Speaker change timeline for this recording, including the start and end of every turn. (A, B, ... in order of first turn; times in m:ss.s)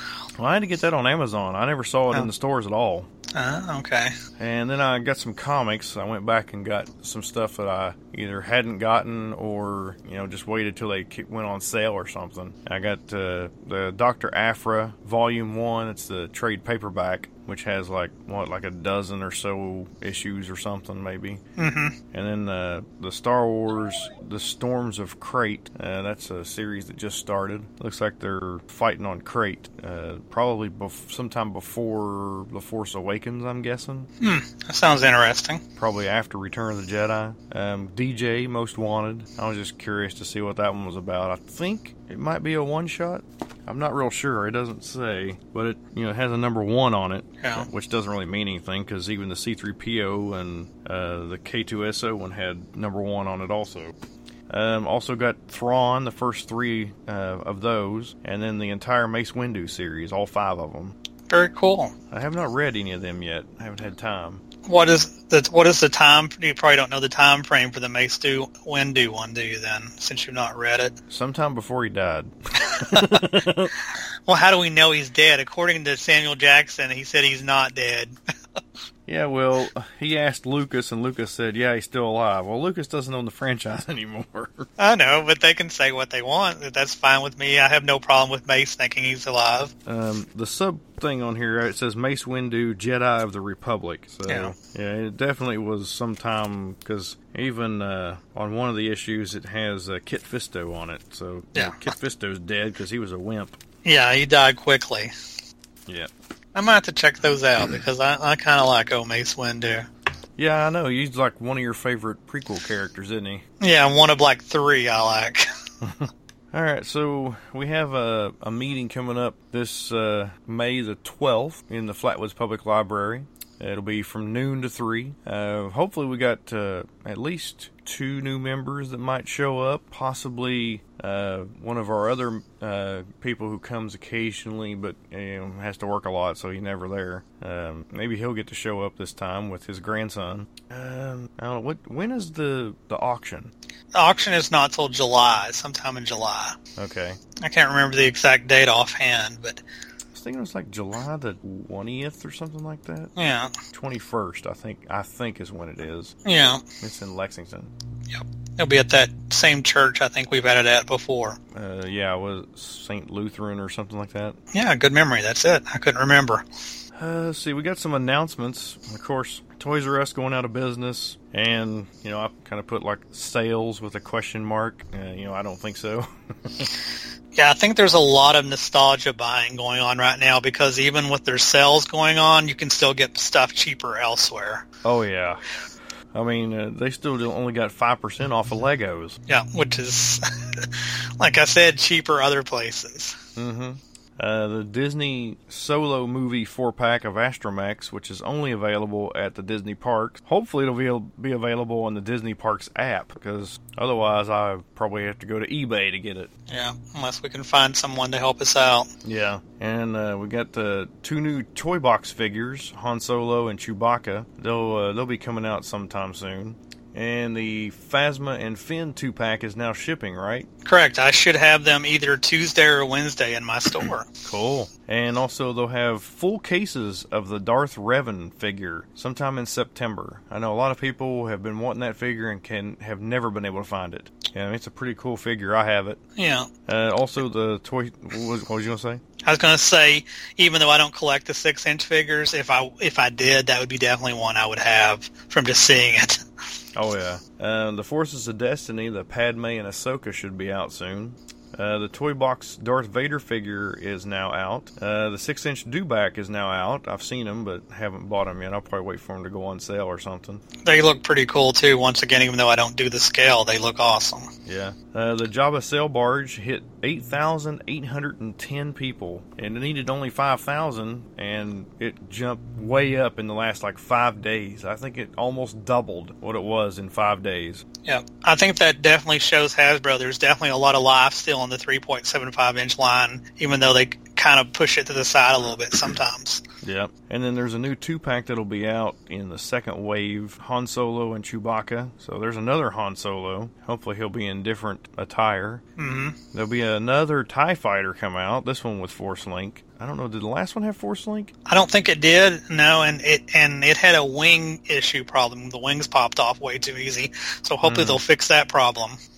0:00.3-0:03.1 A
0:03.3-0:04.1 B
0:04.4-0:21.4 A
0:21.6-0:22.0 B
0:22.1-0:34.1 A
0:34.2-0:35.6 B
0:35.8-0:53.9 A
0:47.4-0:47.6 B
0:54.5-1:00.9 A
1:01.3-1:01.9 B
1:02.1-1:04.4 A
1:04.6-1:11.0 B
1:11.1-1:13.7 A
1:12.6-1:13.3 B
1:14.2-1:18.2 B
1:19.0-1:24.7 A
1:24.8-1:29.7 B
1:29.8-1:43.6 A
1:34.3-1:34.5 B
1:41.5-1:41.9 B
1:43.8-1:45.1 B
1:46.5-1:49.9 B
1:50.4-1:53.4 A
1:53.6-1:55.5 B
1:55.8-2:23.5 A
2:23.9-2:26.6 B
2:26.8-2:27.2 A
2:27.4-2:29.6 B
2:30.1-2:33.1 A
2:33.2-2:33.6 B
2:33.7-2:36.2 A
2:36.2-2:36.6 B
2:36.8-2:37.7 A
2:38.1-2:41.4 B
2:41.5-2:44.4 A
2:44.5-2:46.4 B
2:47.0-2:56.7 A
2:57.3-3:04.6 B
3:04.8-3:05.4 A
3:06.1-3:09.2 A
3:09.3-3:13.2 B
3:13.4-3:26.3 A
3:26.5-3:28.9 B
3:29.0-3:40.5 A
3:40.6-3:44.1 B
3:44.2-3:56.0 A
3:56.2-3:56.5 B
3:56.6-3:59.0 A
3:59.2-4:06.2 B
4:06.7-4:20.4 A
4:20.6-4:24.3 B
4:24.4-4:37.6 A
4:37.8-4:46.4 B
4:46.6-4:55.6 A
4:55.8-4:56.2 B
4:56.3-5:01.3 A
5:01.4-5:09.0 B
5:07.6-5:08.0 A